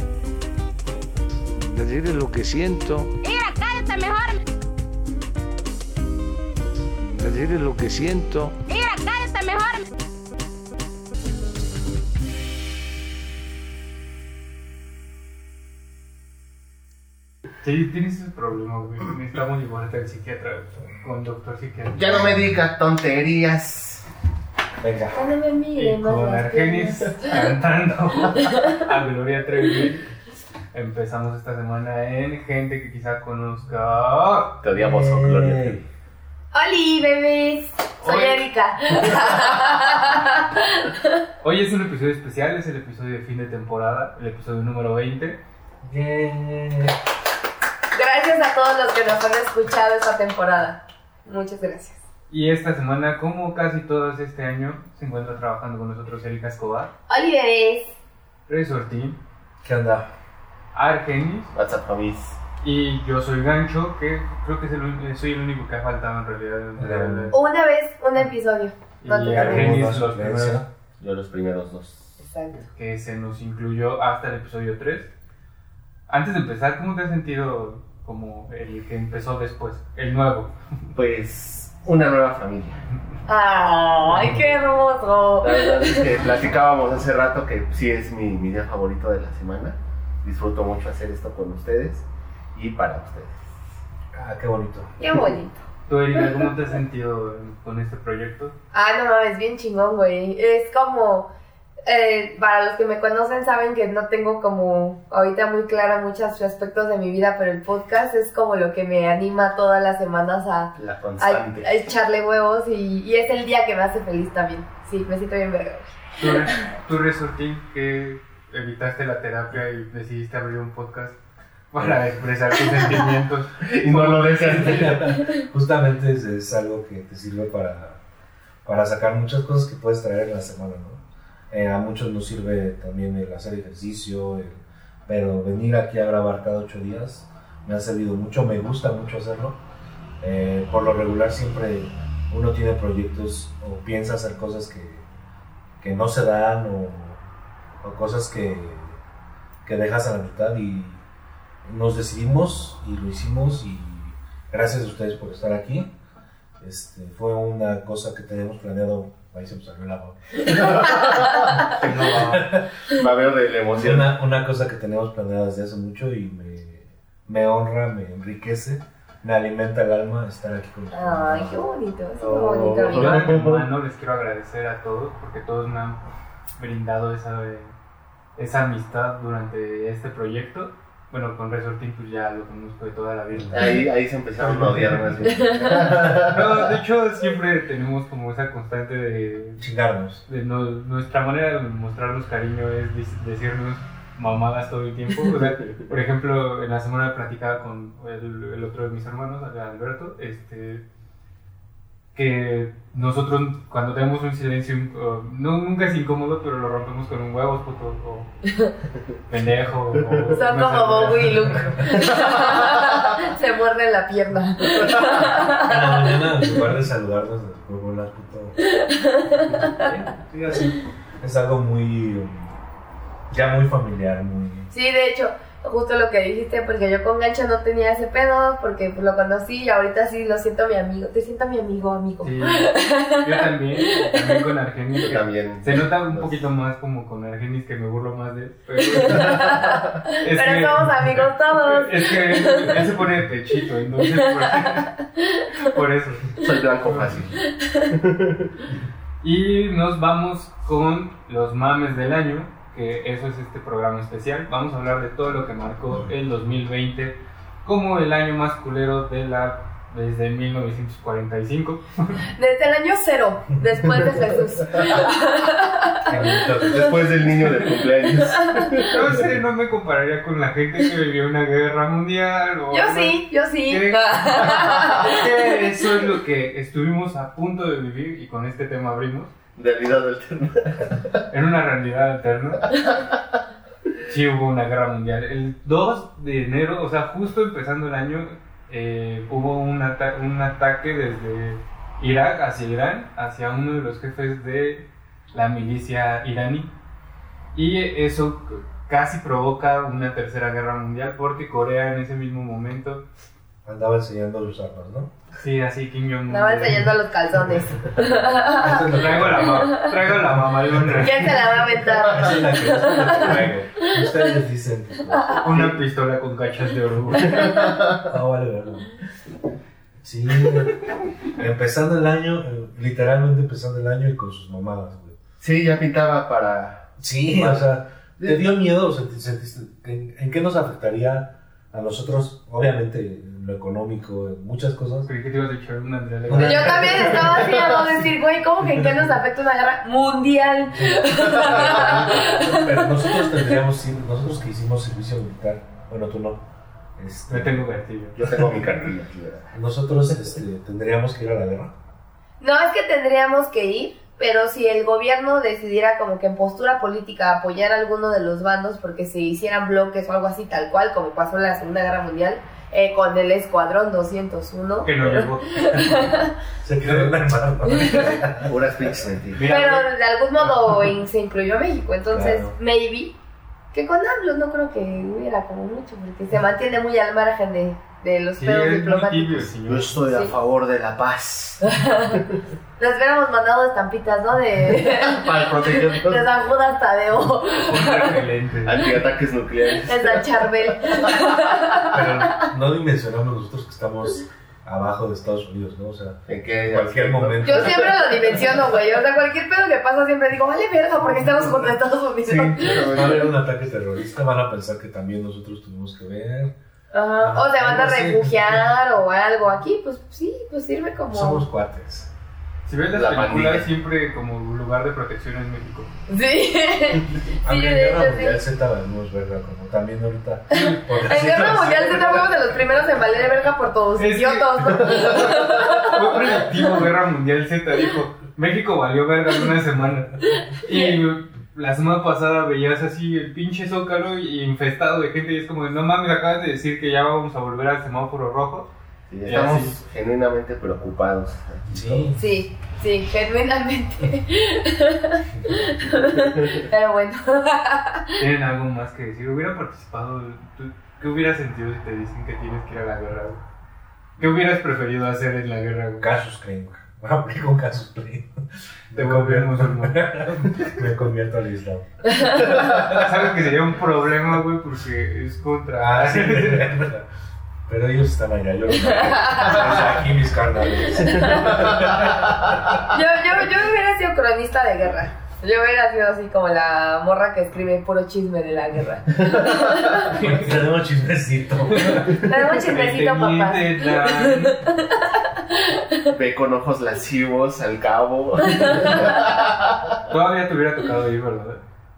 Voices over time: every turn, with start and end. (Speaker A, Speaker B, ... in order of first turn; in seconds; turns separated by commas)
Speaker A: 1.6-3.2, Speaker B: 3.2-4.4, Speaker A: 7.0-8.6, Speaker B: 8.7-9.8, Speaker C: 17.6-22.3, Speaker D: 21.9-24.0, Speaker E: 24.8-25.2, Speaker F: 25.1-27.4, Speaker C: 25.8-30.1, Speaker F: 28.3-28.9, Speaker C: 30.7-34.6, Speaker D: 34.6-35.8, Speaker E: 34.7-35.8, Speaker F: 36.5-41.2, Speaker C: 38.0-38.4, Speaker C: 41.4-45.4, Speaker E: 45.8-47.0, Speaker F: 47.9-52.0, Speaker C: 52.3-56.9, Speaker F: 57.1-57.9, Speaker C: 58.5-59.2, Speaker E: 59.6-60.1, Speaker C: 60.7-61.5, Speaker D: 61.5-62.4, Speaker C: 62.6-67.4, Speaker E: 66.8-67.3, Speaker F: 67.3-69.8, Speaker C: 69.0-70.6, Speaker E: 69.3-70.7, Speaker D: 71.0-72.2, Speaker F: 72.2-72.7, Speaker C: 72.7-75.1, Speaker C: 76.1-80.5, Speaker D: 80.9-82.8, Speaker F: 83.2-86.1, Speaker E: 84.1-84.6, Speaker D: 85.4-93.5, Speaker E: 94.1-95.0, Speaker F: 95.0-95.6, Speaker C: 95.9-98.5, Speaker F: 98.7-101.3, Speaker F: 101.8-116.0, Speaker D: 110.8-111.7, Speaker C: 116.2-121.2, Speaker C: 121.7-125.0, Speaker D: 123.6-125.0, Speaker E: 124.4-128.0, Speaker E: 128.6-139.6, Speaker E: 140.2-145.1, Speaker E: 145.8-147.2, Speaker E: 147.8-149.0, Speaker E: 149.6-151.0, Speaker E: 151.6-155.9, Speaker E: 156.6-160.7, Speaker D: 160.4-164.1, Speaker E: 161.7-162.7, Speaker C: 161.8-162.2, Speaker E: 163.7-171.6, Speaker F: 170.9-173.4, Speaker D: 172.2-173.6, Speaker C: 172.9-176.0, Speaker C: 176.6-177.7, Speaker C: 178.4-183.8, Speaker E: 183.3-183.7, Speaker D: 183.5-186.7, Speaker E: 184.4-186.4, Speaker F: 185.3-185.6, Speaker C: 186.2-189.6, Speaker E: 189.6-190.2, Speaker C: 190.3-200.8, Speaker D: 195.6-195.9, Speaker C: 202.1-208.3, Speaker C: 209.3-211.5, Speaker D: 209.9-210.3, Speaker F: 210.3-216.3, Speaker D: 212.1-212.6, Speaker E: 215.3-218.6, Speaker F: 218.6-219.9, Speaker E: 219.3-222.6, Speaker E: 223.3-224.7, Speaker F: 224.7-234.3, Speaker C: 232.2-239.6, Speaker D: 235.1-236.4, Speaker F: 238.9-242.9, Speaker D: 239.0-239.8, Speaker C: 240.2-244.9, Speaker F: 244.0-245.7, Speaker C: 245.6-247.2, Speaker D: 246.4-247.4, Speaker F: 247.5-247.9, Speaker D: 247.9-248.5, Speaker C: 249.2-262.2, Speaker F: 262.4-266.1, Speaker E: 266.1-267.3, Speaker D: 266.7-268.9, Speaker F: 268.3-268.9, Speaker C: 268.9-279.3, Speaker F: 272.7-275.4, Speaker D: 279.6-281.2, Speaker C: 281.3-282.6, Speaker C: 284.0-296.7, Speaker C: 297.5-303.0, Speaker E: 303.6-305.1, Speaker C: 305.4-306.9, Speaker F: 306.3-309.9, Speaker E: 308.4-315.6, Speaker C: 308.9-311.3, Speaker F: 311.0-314.3, Speaker F: 315.1-315.5, Speaker C: 315.3-317.6, Speaker D: 317.4-318.0, Speaker E: 318.0-318.9, Speaker E: 320.0-320.8, Speaker E: 321.3-325.1, Speaker D: 325.4-327.7, Speaker E: 327.0-335.1, Speaker C: 335.1-337.4, Speaker E: 336.3-337.6, Speaker F: 336.4-343.5, Speaker E: 340.7-346.4, Speaker E: 347.0-347.7, Speaker C: 347.3-348.2, Speaker D: 348.1-349.5, Speaker E: 349.5-351.8, Speaker F: 352.4-366.3, Speaker C: 364.8-366.1, Speaker E: 366.6-369.0, Speaker C: 366.8-367.1, Speaker F: 367.7-367.9, Speaker D: 368.4-369.5, Speaker C: 369.3-369.9, Speaker F: 369.5-373.2, Speaker E: 372.1-372.6, Speaker F: 373.7-379.5, Speaker C: 378.4-380.0, Speaker D: 379.6-382.4, Speaker F: 380.1-380.3, Speaker F: 381.6-382.2, Speaker F: 382.8-388.2, Speaker D: 384.8-386.5, Speaker C: 387.6-389.0, Speaker D: 388.6-391.3, Speaker F: 389.8-392.5, Speaker E: 391.8-398.3, Speaker D: 396.3-398.6, Speaker F: 397.4-402.9, Speaker D: 402.2-403.3, Speaker E: 402.7-406.5, Speaker F: 406.9-411.4, Speaker E: 407.2-408.6, Speaker E: 411.1-412.1, Speaker C: 412.6-415.9, Speaker D: 412.9-413.6, Speaker F: 416.1-418.4, Speaker E: 417.4-422.5, Speaker C: 420.5-421.8, Speaker F: 421.0-426.7, Speaker C: 424.0-438.7, Speaker F: 430.3-430.9, Speaker D: 439.1-442.1, Speaker C: 439.2-439.8, Speaker E: 441.7-442.3, Speaker F: 442.1-448.2, Speaker E: 445.3-445.7, Speaker C: 448.2-453.4, Speaker C: 454.2-456.1, Speaker E: 456.0-463.1, Speaker C: 458.9-460.2, Speaker F: 462.1-462.4, Speaker C: 462.4-466.8, Speaker E: 465.8-467.1, Speaker E: 467.7-472.8, Speaker F: 468.7-469.8, Speaker F: 471.0-471.7, Speaker D: 471.5-472.1, Speaker F: 472.9-480.2, Speaker D: 479.4-479.7, Speaker E: 480.1-482.2, Speaker C: 481.7-484.7, Speaker F: 482.1-486.1, Speaker D: 486.1-490.0, Speaker F: 488.6-489.1, Speaker C: 490.1-491.6